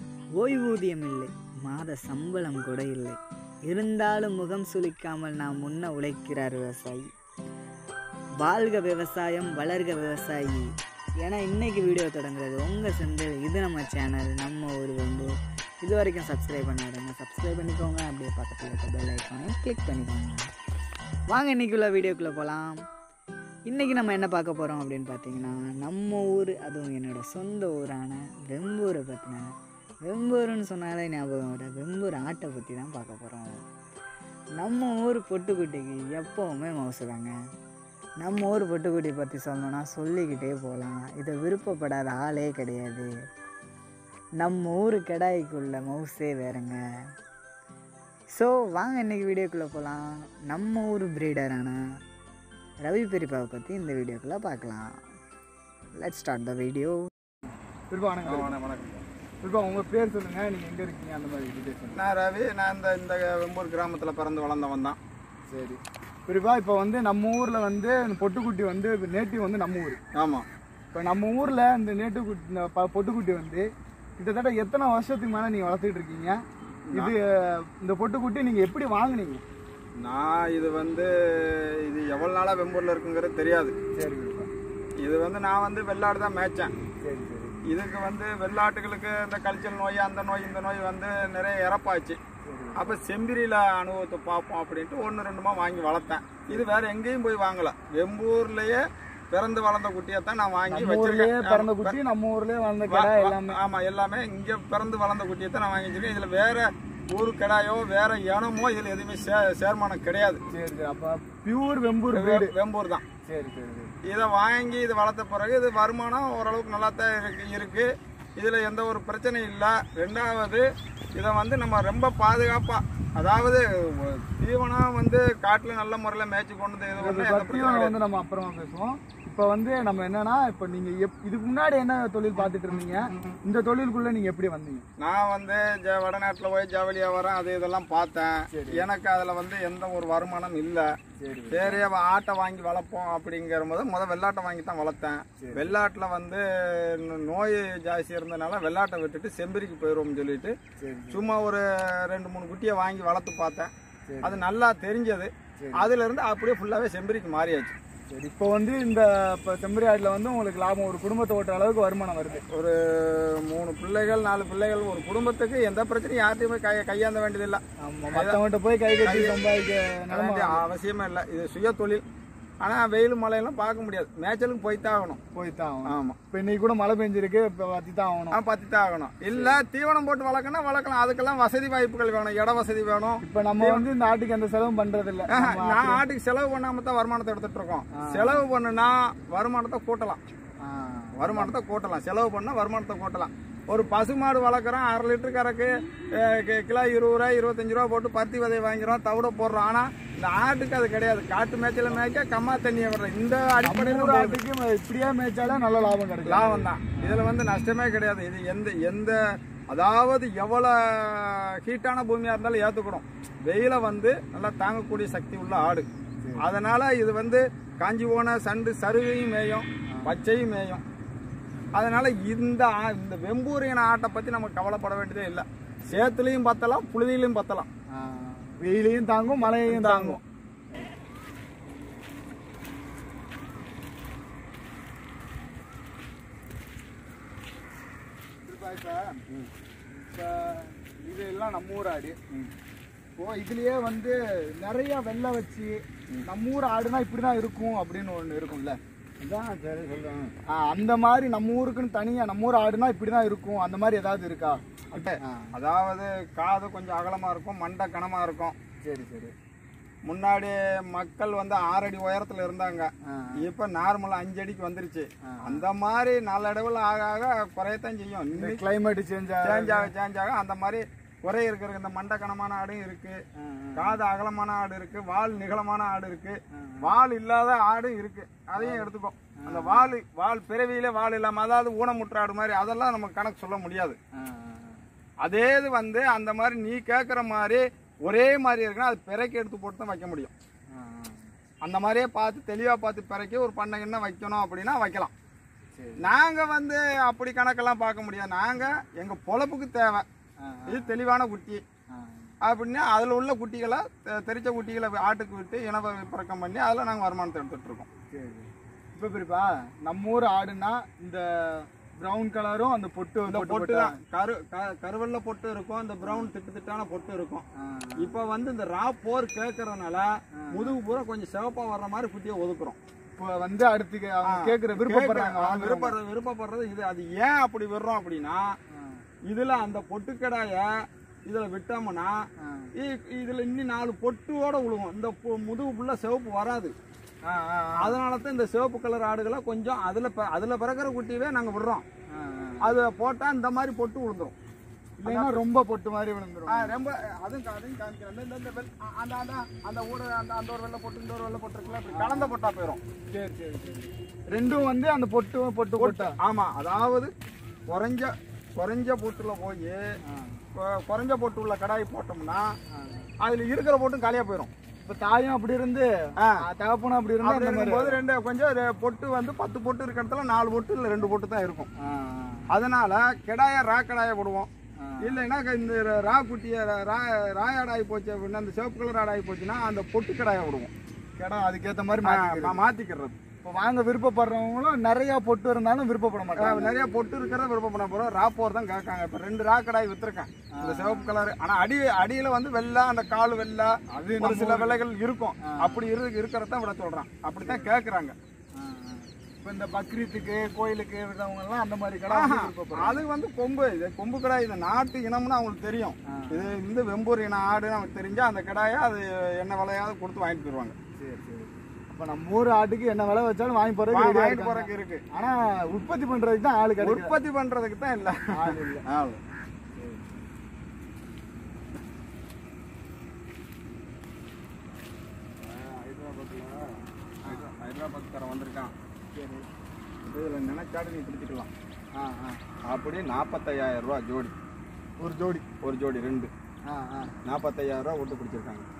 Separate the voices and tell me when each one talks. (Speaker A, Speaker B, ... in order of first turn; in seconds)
Speaker A: 0.4-3.2, 3.7-7.1, 8.4-20.5, 21.3-22.8, 23.7-29.4, 30.1-33.5, 34.6-37.3, 38.2-43.1, 44.4-46.8, 48.3-51.8, 52.8-55.0, 55.9-57.1
Speaker B: 57.9-58.5, 59.4-62.0, 65.5-70.0, 70.9-73.7, 74.2-76.4, 76.9-79.4, 83.9-84.5, 87.0-87.6, 92.4-93.0, 100.7-103.6, 110.5-112.5, 113.2-113.9, 127.0-134.8, 138.5-138.8, 141.2-141.8, 145.4-145.7, 150.8-151.3, 154.1-154.4, 155.6-155.9, 158.1-162.4, 167.8-170.6, 175.3-178.4, 183.2-186.0, 188.0-188.4, 190.6-191.5, 203.6-207.2, 216.2-216.5, 227.9-230.2, 238.4-239.2, 239.9-242.2, 243.2-248.8, 250.5-255.5, 258.8-259.3, 263.1-263.5, 265.3-265.6, 268.3-269.9, 273.4-274.0, 276.5-276.9, 278.6-278.9, 279.4-279.9, 284.1-284.8, 290.7-291.3, 295.8-296.0, 300.4-300.9, 301.9-302.3, 308.1-314.0, 316.0-316.3, 317.6-318.1, 320.4-320.8, 323.1-325.9, 328.7-329.0, 332.4-332.7, 337.2-338.0, 342.1-342.7, 345.0-346.7, 351.9-352.4, 353.1-356.2, 360.1-360.4, 362.7-363.1, 364.8-368.0, 371.8-372.5, 374.8-375.2, 381.2-382.6, 383.4-386.7, 390.6-391.1, 393.9-394.8, 395.5-395.9, 397.4-397.7, 398.6-403.0, 406.1-406.5, 411.0-417.1, 418.3-418.8, 419.8-420.1, 429.1-429.5, 431.9-432.4, 435.0-435.4, 436.7-437.1
Speaker C: 58.2-59.0, 61.9-65.0, 70.1-70.5, 76.9-77.1, 80.0-83.7, 85.0-86.7, 87.7-92.2, 92.8-102.0, 102.9-110.4, 112.1-113.0, 114.0-127.9, 132.8-133.4, 135.0-140.9, 141.5-150.6, 151.1-153.7, 154.2-157.8, 162.5-167.6, 168.1-168.4, 169.0-169.4, 170.1-172.0, 172.6-175.2, 175.8-176.2, 178.3-183.9, 185.3-190.2, 191.2-204.4, 206.2-215.9, 216.4-220.8, 221.7-227.7, 229.4-230.2, 249.2-250.3, 254.9-258.5, 260.0-268.6, 269.4-273.2, 273.8-284.0, 285.2-290.3, 291.6-295.1, 296.0-300.1, 300.7-301.6, 302.4-307.9, 313.3-317.4, 318.0-322.8, 324.2-328.6, 329.3-332.2, 332.8-336.7, 337.8-341.8, 342.6-344.3, 345.0-345.4, 346.5-352.8, 355.8-357.1, 357.7-359.8, 360.5-362.5, 363.2-364.5, 366.2-366.4, 367.2-371.7, 372.5-374.5, 375.0-380.7, 382.0-383.2, 386.4-398.1, 402.1-410.8, 413.9-415.0, 416.8-419.2, 425.4-428.7, 430.0-431.5, 432.6-434.3, 435.6-436.3, 437.2-438.7